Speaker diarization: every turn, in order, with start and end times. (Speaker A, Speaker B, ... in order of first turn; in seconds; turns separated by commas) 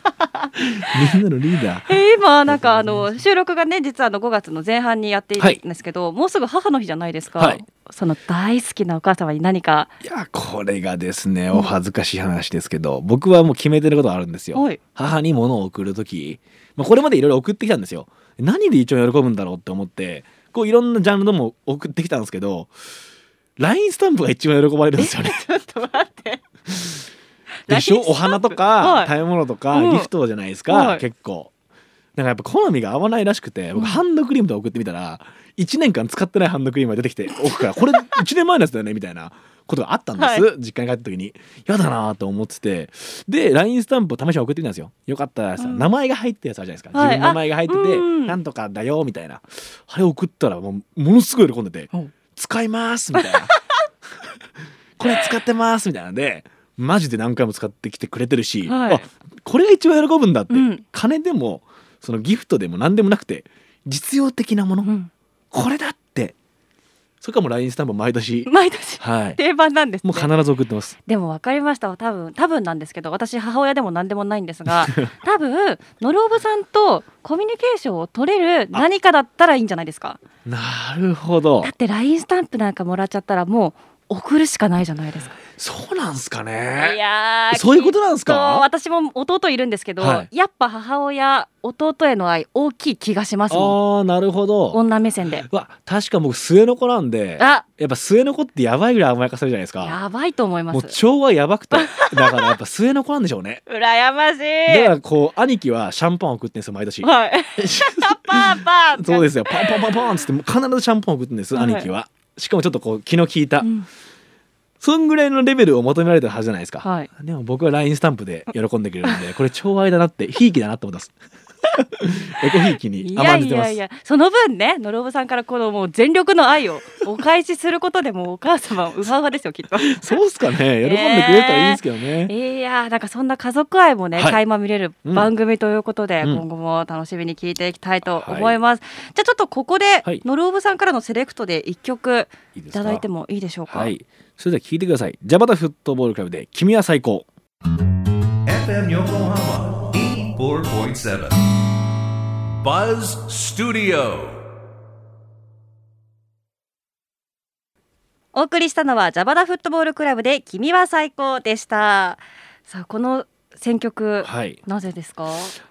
Speaker A: 0.6-1.9, Speaker B: 1.9-9.9, Speaker A: 2.5-3.2, Speaker A: 10.0-22.7, Speaker B: 14.5-14.8, Speaker A: 23.6-25.4, Speaker B: 25.0-26.4, Speaker B: 27.7-29.1, Speaker A: 27.7-31.5, Speaker B: 29.7-30.1, Speaker B: 30.7-31.0, Speaker A: 32.1-53.5, Speaker B: 33.7-34.0, Speaker B: 40.2-40.5, Speaker B: 45.6-45.9, Speaker B: 46.9-48.4, Speaker B: 53.1-53.5, Speaker A: 55.0-64.9, Speaker B: 58.6-59.0, Speaker B: 60.5-60.8, Speaker B: 64.8-65.1, Speaker A: 65.5-66.3, Speaker A: 67.2-69.4, Speaker B: 68.5-70.3, Speaker A: 70.0-71.0, Speaker B: 71.1-80.2, Speaker A: 74.7-75.1, Speaker A: 80.4-81.7, Speaker B: 81.6-85.4, Speaker A: 85.6-87.0, Speaker B: 86.8-93.8, Speaker A: 87.5-88.7, Speaker A: 90.0-90.3, Speaker A: 93.5-94.8, Speaker B: 94.7-95.5, Speaker A: 95.4-100.0, Speaker B: 97.4-97.6, Speaker B: 99.8-101.0, Speaker A: 100.7-103.6, Speaker B: 101.7-102.5, Speaker B: 103.7-104.9, Speaker A: 104.7-113.7, Speaker B: 107.0-110.2, Speaker B: 111.5-111.9, Speaker B: 113.6-113.9, Speaker A: 114.8-121.1, Speaker B: 116.8-117.1, Speaker A: 121.7-123.8, Speaker B: 123.0-130.1, Speaker A: 129.8-132.3, Speaker B: 130.8-143.9, Speaker A: 135.0-135.3, Speaker A: 138.2-138.6, Speaker A: 142.5-143.0, Speaker A: 143.7-147.3, Speaker C: 148.4-151.4, Speaker C: 152.6-154.4, Speaker B: 158.3-165.6, Speaker A: 164.2-164.6